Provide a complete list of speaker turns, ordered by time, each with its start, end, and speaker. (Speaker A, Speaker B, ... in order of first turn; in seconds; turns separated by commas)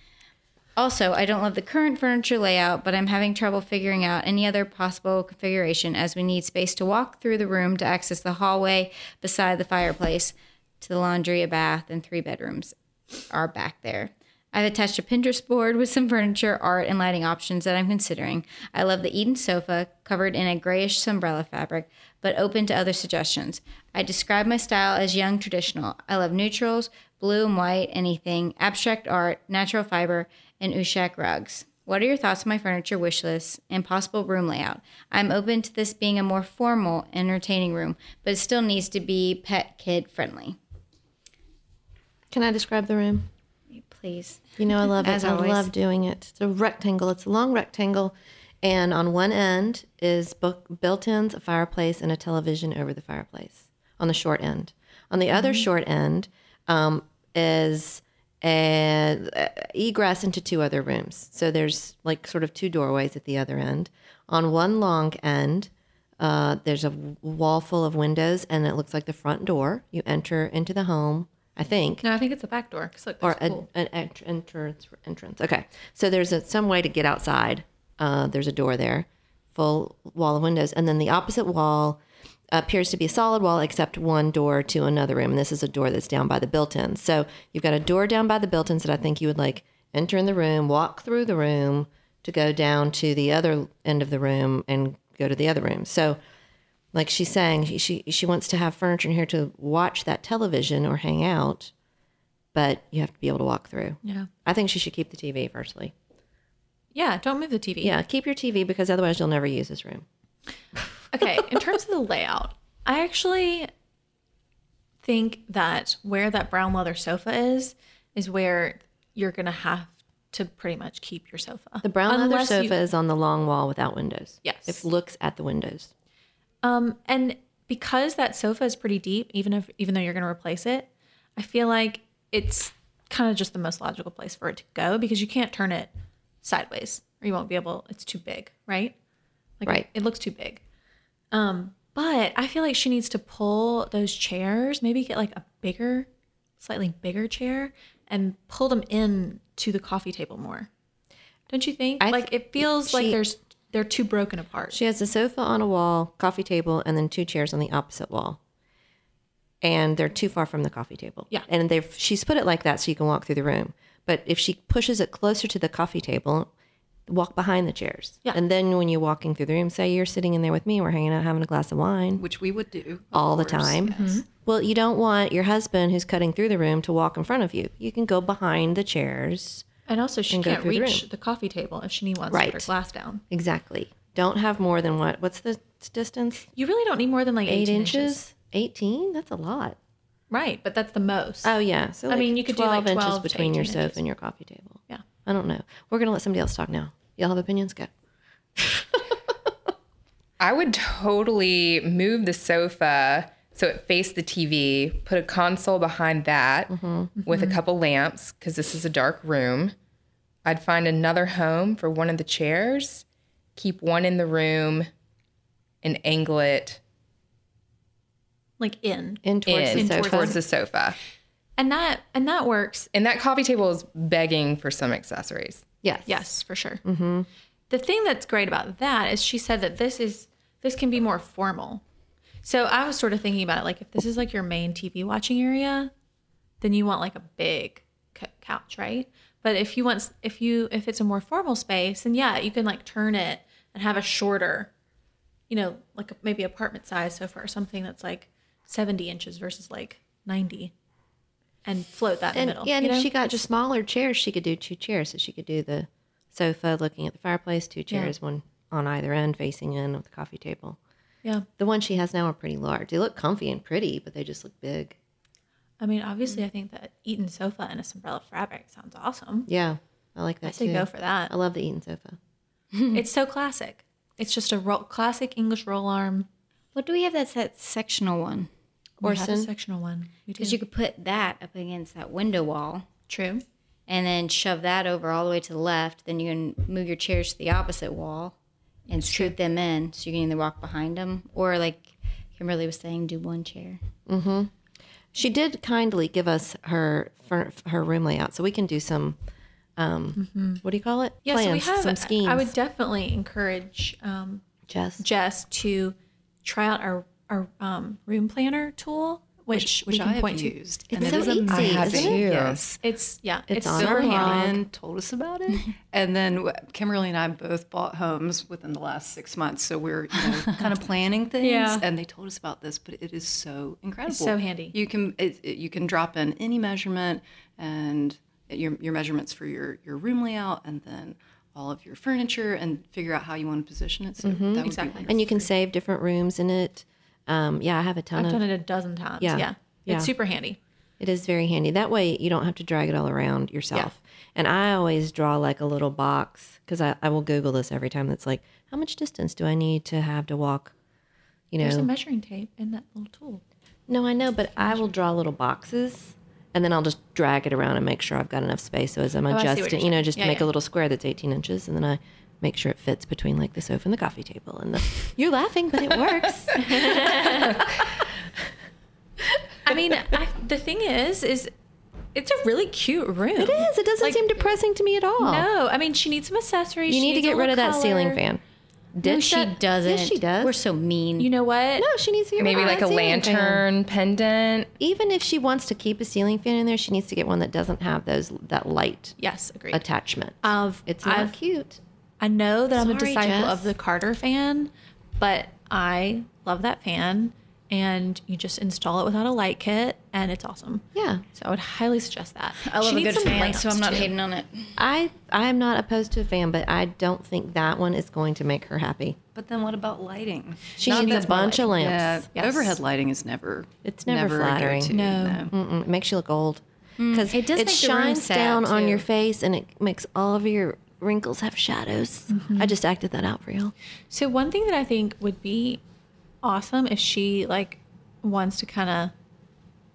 Speaker A: 0.8-12.7, Speaker A: 13.3-40.6, Speaker B: 42.3-43.3, Speaker A: 43.7-45.7, Speaker B: 44.6-72.0, Speaker C: 55.3-55.6, Speaker C: 72.0-73.7, Speaker B: 73.2-82.0, Speaker B: 82.5-96.2, Speaker B: 96.9-101.7, Speaker B: 102.5-105.9, Speaker C: 104.0-104.3, Speaker C: 106.9-108.0, Speaker B: 107.8-110.0, Speaker C: 111.1-113.7, Speaker C: 115.0-122.8, Speaker B: 121.8-125.9, Speaker C: 124.4-124.8, Speaker C: 126.6-135.9, Speaker C: 136.4-138.9, Speaker C: 139.6-140.6, Speaker C: 141.3-146.1, Speaker C: 146.6-150.7, Speaker C: 151.5-154.8, Speaker B: 152.0-153.2, Speaker B: 154.7-158.4, Speaker B: 159.6-166.5, Speaker B: 167.1-172.2, Speaker D: 172.2-174.2, Speaker B: 173.1-179.7, Speaker C: 173.9-174.2, Speaker C: 179.9-183.2, Speaker B: 180.3-181.0, Speaker B: 182.3-182.7, Speaker B: 183.3-186.5, Speaker C: 186.5-188.2, Speaker B: 187.4-189.8, Speaker C: 190.3-191.5, Speaker B: 191.4-197.9, Speaker C: 192.1-194.0, Speaker B: 198.6-199.1, Speaker E: 200.4-206.7, Speaker B: 206.7-207.1, Speaker C: 207.2-207.6, Speaker E: 207.2-209.7, Speaker E: 210.4-213.0, Speaker E: 213.6-214.9, Speaker E: 215.8-216.8, Speaker C: 218.6-220.4, Speaker B: 219.2-220.4, Speaker E: 219.4-220.9, Speaker C: 221.6-222.9, Speaker E: 222.9-225.6, Speaker B: 225.8-226.3, Speaker C: 226.1-226.8, Speaker B: 226.8-227.3, Speaker C: 227.7-231.8, Speaker C: 232.4-235.9, Speaker C: 236.6-244.7, Speaker C: 245.5-250.7, Speaker C: 251.6-253.4, Speaker B: 252.3-260.8, Speaker B: 261.6-264.9, Speaker C: 265.8-269.5, Speaker B: 269.5-272.2, Speaker C: 270.4-271.3, Speaker C: 272.9-276.3, Speaker A: 276.7-278.5, Speaker C: 279.0-280.6, Speaker B: 279.0-279.5, Speaker A: 280.4-282.9, Speaker C: 283.1-283.4, Speaker A: 283.9-288.3, Speaker A: 288.9-293.8, Speaker C: 289.0-289.3, Speaker B: 294.1-294.5, Speaker B: 295.1-299.2, Speaker B: 299.8-302.5, Speaker C: 300.1-300.6, Speaker C: 301.2-304.4, Speaker B: 304.7-305.0, Speaker C: 305.0-311.2, Speaker D: 309.5-312.8, Speaker B: 310.9-312.3, Speaker E: 311.5-312.8, Speaker C: 312.8-314.5, Speaker B: 313.5-314.6, Speaker D: 313.7-335.5, Speaker A: 321.4-321.8, Speaker C: 324.1-324.7, Speaker B: 334.2-338.4, Speaker C: 334.6-335.1, Speaker C: 338.1-340.6, Speaker B: 339.2-340.1, Speaker B: 341.0-350.7, Speaker B: 351.5-351.9, Speaker C: 351.6-353.4, Speaker B: 353.9-367.5, Speaker C: 359.3-360.5, Speaker C: 366.5-367.7, Speaker C: 369.6-371.5, Speaker C: 372.1-374.3, Speaker B: 373.4-375.4, Speaker C: 375.2-378.2, Speaker B: 376.9-378.4, Speaker B: 379.0-380.6, Speaker A: 379.0-381.3, Speaker C: 381.2-381.9, Speaker B: 381.8-383.6, Speaker E: 382.4-384.7, Speaker B: 384.8-389.1, Speaker C: 389.2-389.8, Speaker B: 389.7-391.8, Speaker C: 390.4-391.3, Speaker C: 392.2-404.1, Speaker B: 392.7-393.7, Speaker B: 400.9-401.2, Speaker A: 402.6-404.7, Speaker B: 404.8-409.2, Speaker D: 409.3-415.5, Speaker B: 410.8-412.3, Speaker C: 410.9-411.7, Speaker C: 412.3-412.8, Speaker B: 413.8-414.9, Speaker C: 414.9-415.5, Speaker B: 415.5-423.7, Speaker A: 417.0-419.0, Speaker C: 422.3-422.7, Speaker C: 424.1-425.8, Speaker C: 426.4-429.1